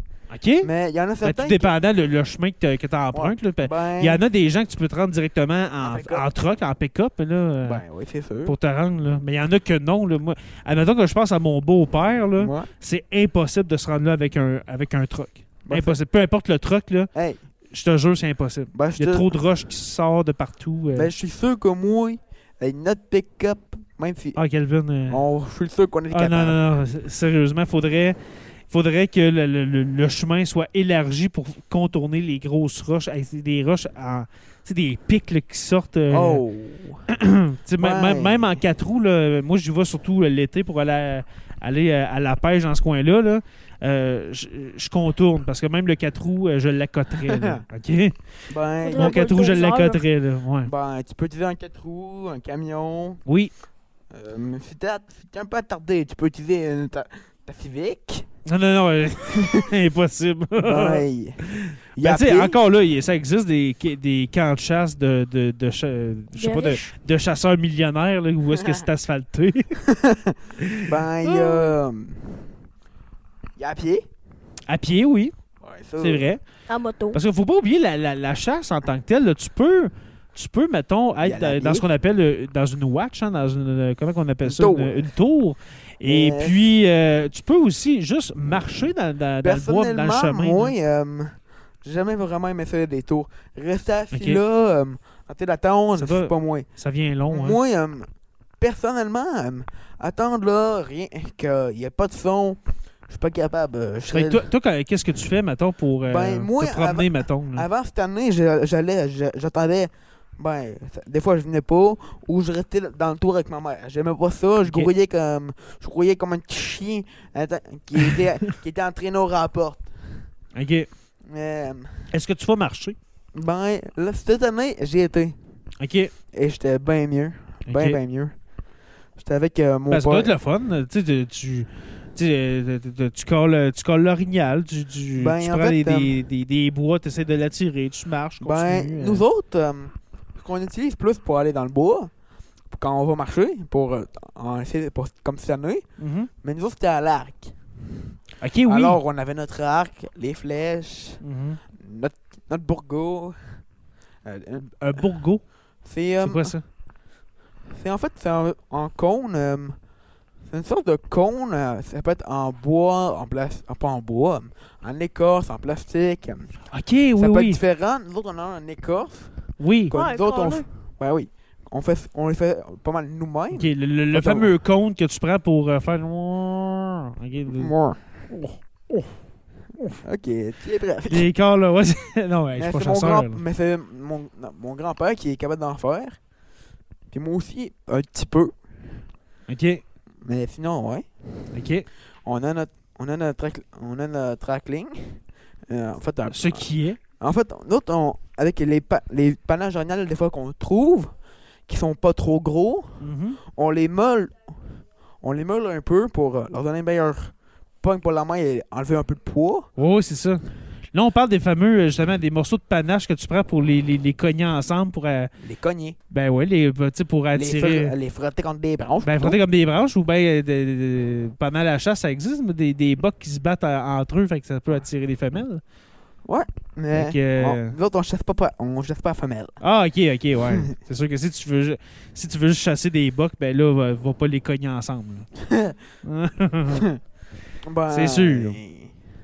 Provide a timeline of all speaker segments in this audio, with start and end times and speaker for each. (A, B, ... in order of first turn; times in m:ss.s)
0:00.3-0:00.7 A
0:00.6-0:01.7 B
0:01.2-0:07.8 A
0:03.1-0:04.2 B
0:05.8-0:06.2 B
0:07.6-0:08.5 B
0:08.4-0:17.1 A
0:12.4-0:12.7 B
0:15.6-0:16.0 B
0:17.1-0:17.4 B
0:17.7-0:21.1 A
0:18.7-0:19.3 B
0:20.9-0:24.4 B
0:24.4-0:25.2 A
0:25.1-0:26.6 B
0:26.1-0:28.2 A
0:28.7-0:36.4 A
0:36.1-0:37.0 B
0:37.1-0:48.2 A
0:37.8-0:38.6 B
0:47.2-0:47.6 B
0:48.5-0:49.6 B
0:48.8-0:50.0 C
0:48.9-0:50.7 A
0:50.6-0:53.2 B
0:53.2-0:53.5 A
0:54.1-0:58.3 B
0:58.4-1:09.8 A
0:59.3-0:59.7 B
1:00.6-1:01.4 B
1:02.0-1:02.6 B
1:06.4-1:06.9 C
1:09.9-1:12.5 B
1:10.6-1:11.7 A
1:13.6-1:14.1 B
1:14.7-1:15.3 A
1:15.6-1:16.3 B
1:16.0-1:16.4 A
1:16.7-1:17.2 C
1:17.1-1:30.7 A
1:21.2-1:21.8 B
1:24.4-1:25.1 B
1:26.0-1:26.5 B
1:29.4-1:36.7 B
1:34.1-1:34.4 A
1:36.0-1:37.6 A
1:37.3-1:38.1 B
1:38.6-1:44.5 B
1:44.1-1:47.7 A
1:46.1-1:59.9 B
2:00.5-2:00.9 A
2:01.3-2:02.1 B
2:02.1-2:03.0 A
2:03.3-2:05.4 B
2:05.8-2:06.1 A
2:06.3-2:08.3 B
2:07.6-2:08.0 A
2:09.2-2:10.3 B
2:09.9-2:19.2 A
2:15.2-2:16.1 B
2:18.4-2:22.1 B
2:22.7-2:25.8 B
2:26.0-2:26.3 A
2:26.4-2:28.1 B
2:28.4-2:29.0 A
2:28.6-2:33.6 B
2:31.2-2:31.6 A
2:34.2-2:35.1 B
2:34.8-2:35.4 A
2:35.8-2:36.5 B
2:36.2-2:36.6 A
2:37.7-2:39.8 B
2:40.5-2:46.5 B
2:46.7-2:47.6 A
2:47.2-2:49.3 B
2:49.6-2:49.9 A
2:49.9-2:54.5 B
2:49.9-2:50.6 C
2:53.5-2:57.8 A
2:57.5-2:58.0 B
2:58.3-2:59.2 A
2:59.8-3:00.0 A
3:00.0-3:01.3 B
3:01.1-3:03.4 A
3:02.6-3:06.2 B
3:07.1-3:08.9 B
3:09.5-3:09.8 A
3:10.2-3:11.1 B
3:11.5-3:11.9 A
3:12.2-3:16.7 B
3:16.3-3:17.0 A
3:17.2-3:21.1 B
3:21.7-3:29.7 B
3:23.0-3:23.4 A
3:29.8-3:35.3 A
3:35.4-3:36.0 B
3:36.1-3:37.9 A
3:37.3-3:39.4 B
3:39.0-3:45.6 A
3:46.2-3:49.6 B
3:46.9-3:47.8 A
3:49.6-3:55.3 A
3:55.4-3:55.8 B
3:56.0-3:56.9 A
3:57.6-3:58.9 B
3:57.9-3:58.6 A